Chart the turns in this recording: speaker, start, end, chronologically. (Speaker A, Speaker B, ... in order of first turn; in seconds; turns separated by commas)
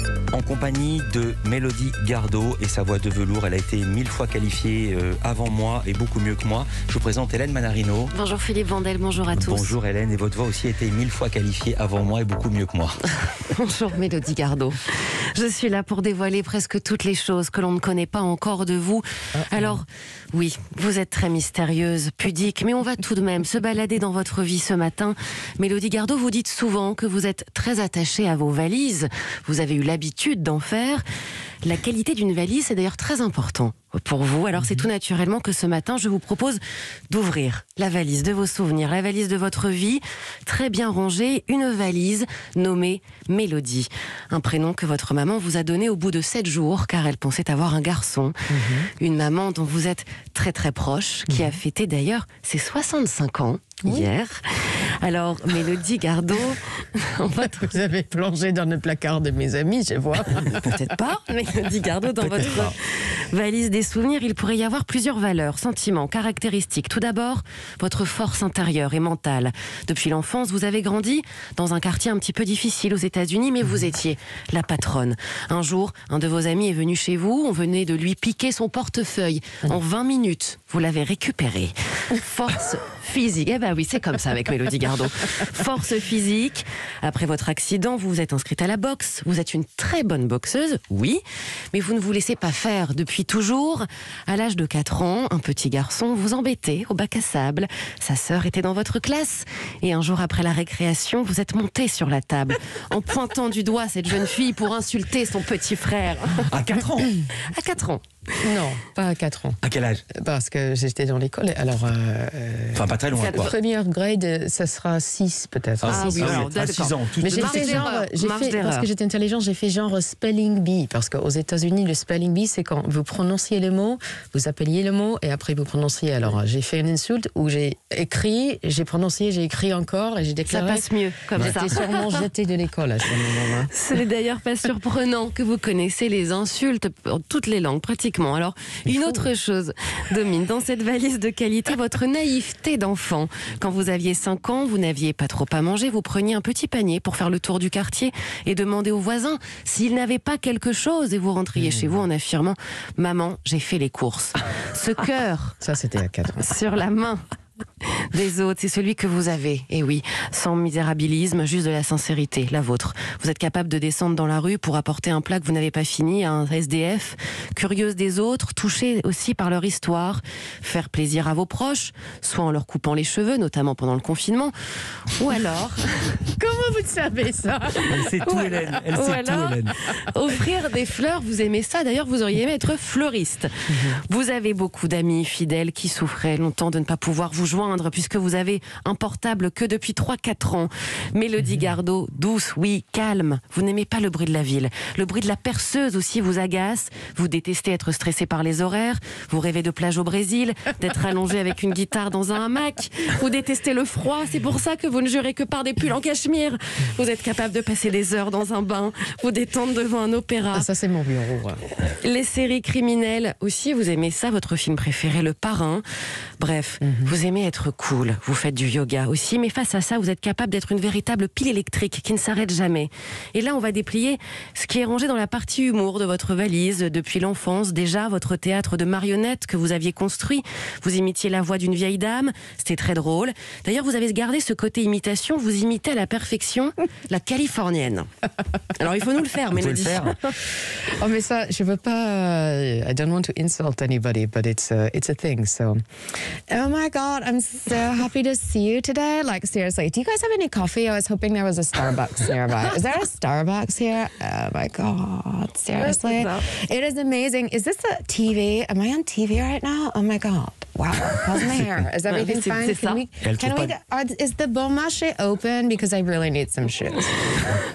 Speaker A: 0.3-8.1, Speaker B: 8.1-9.8, Speaker A: 9.4-13.0, Speaker B: 13.2-31.0, Speaker C: 19.3-19.8, Speaker B: 31.6-48.3, Speaker C: 48.5-48.9, Speaker B: 49.0-57.7, Speaker C: 51.3-51.6, Speaker C: 57.4-60.8, Speaker B: 60.6-106.5, Speaker A: 62.4-62.7, Speaker A: 106.5-107.2, Speaker B: 107.5-108.0, Speaker C: 108.4-109.6, Speaker A: 109.6-110.0, Speaker C: 110.1-116.5, Speaker A: 112.7-113.5, Speaker B: 113.2-113.5, Speaker A: 115.8-117.9, Speaker B: 115.9-118.9, Speaker C: 117.2-133.7, Speaker B: 130.5-132.2, Speaker B: 133.7-155.6, Speaker C: 138.9-139.2, Speaker C: 151.6-151.9, Speaker C: 155.6-156.6, Speaker B: 156.4-157.2, Speaker B: 157.8-174.5, Speaker B: 175.1-176.2, Speaker C: 176.3-178.1, Speaker A: 177.9-179.7, Speaker B: 178.2-210.7, Speaker C: 183.7-184.0, Speaker C: 210.5-211.6, Speaker B: 211.8-215.8, Speaker B: 216.4-238.1, Speaker C: 216.8-217.1, Speaker B: 238.7-240.3, Speaker A: 239.5-240.2, Speaker C: 241.0-245.8, Speaker C: 246.5-267.5, Speaker B: 255.8-256.5, Speaker A: 261.2-261.9, Speaker B: 262.1-263.0, Speaker A: 263.2-263.7